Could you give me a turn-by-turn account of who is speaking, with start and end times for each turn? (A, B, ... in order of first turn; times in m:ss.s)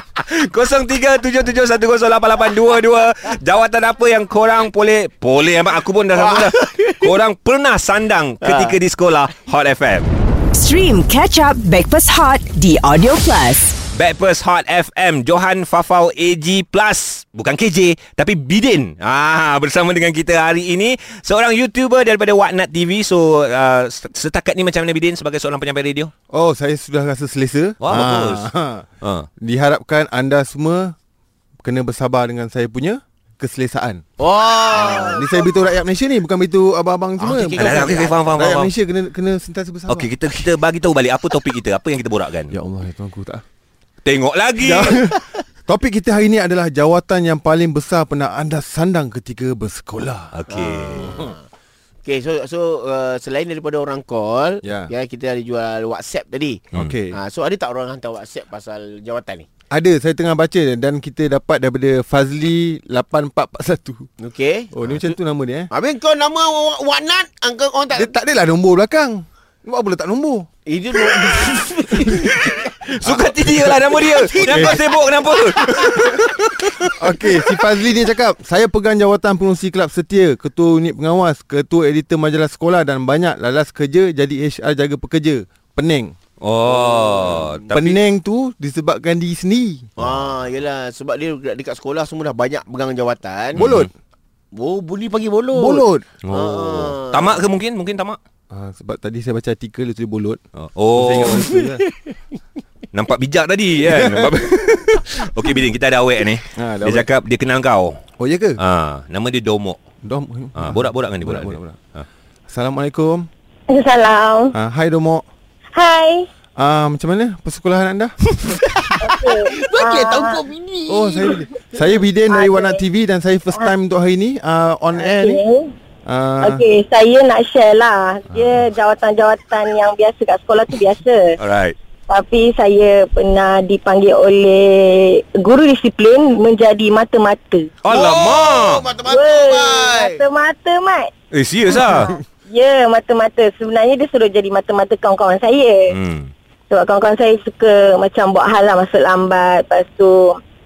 0:00.2-0:10.1 A
0:06.1-0:07.1 B
0:08.4-0:08.8 B
0:10.5-0:13.8 C
0:13.9-0:26.1 A
0:26.3-0:28.8 D
0:27.8-0:28.5 A
0:29.0-0:29.3 A
0:29.4-0:30.9 D
0:31.6-0:34.0 D
0:34.2-0:35.5 B
0:34.8-0:40.1 D
0:37.2-0:38.4 B
0:37.6-0:38.7 A
0:39.9-0:42.5 A
0:42.5-0:43.4 D
0:44.0-0:45.0 A
0:44.6-0:50.3 D
0:50.3-0:51.2 A
0:50.5-0:51.4 B
0:52.0-0:56.6 B
0:54.6-0:54.9 D
0:56.7-0:57.2 D
0:57.1-0:59.5 B
0:59.7-1:04.1 D
1:04.2-1:04.7 B
1:04.7-1:05.7 D
1:05.7-1:08.1 B
1:07.9-1:10.5 D
1:10.6-1:12.8 B
1:12.2-1:17.0 A
1:13.0-1:13.8 D
1:14.0-1:16.3 B
1:14.4-1:14.8 D
1:15.9-1:16.1 D
1:16.9-1:26.1 D
1:26.4-1:27.9 A
1:26.6-1:27.9 B
1:27.7-1:29.9 D
1:30.0-1:33.6 B
1:33.6-1:33.9 A
1:33.6-1:33.9 D
1:34.5-1:37.4 B
1:35.5-1:36.0 D
1:36.2-1:38.2 A
1:38.5-1:40.4 D
1:40.6-1:41.6 A
1:40.9-1:41.8 D
1:41.2-1:41.9 B
1:42.9-1:48.0 A
1:43.8-1:44.4 D
1:46.5-1:47.1 D
1:48.2-1:48.6 D
1:48.6-1:49.8 A
1:50.0-1:51.8 D
1:50.6-1:52.0 A
1:52.5-1:53.3 D
1:53.7-1:54.5 E
1:54.5-1:55.2 D
1:55.8-1:56.3 E
1:56.6-1:58.1 D
1:58.4-2:01.4 B
1:59.0-2:00.4 E
2:00.9-2:05.4 D
2:02.3-2:02.8 E
2:05.0-2:05.7 E
2:06.0-2:06.6 D
2:06.4-2:11.4 E
2:11.4-2:11.7 A
2:12.1-2:17.7 E
2:17.8-2:18.8 A
2:17.9-2:20.2 B
2:19.1-2:21.1 E
2:21.3-2:22.1 A
2:21.7-2:25.9 E
2:25.9-2:26.3 A
2:26.7-2:30.4 E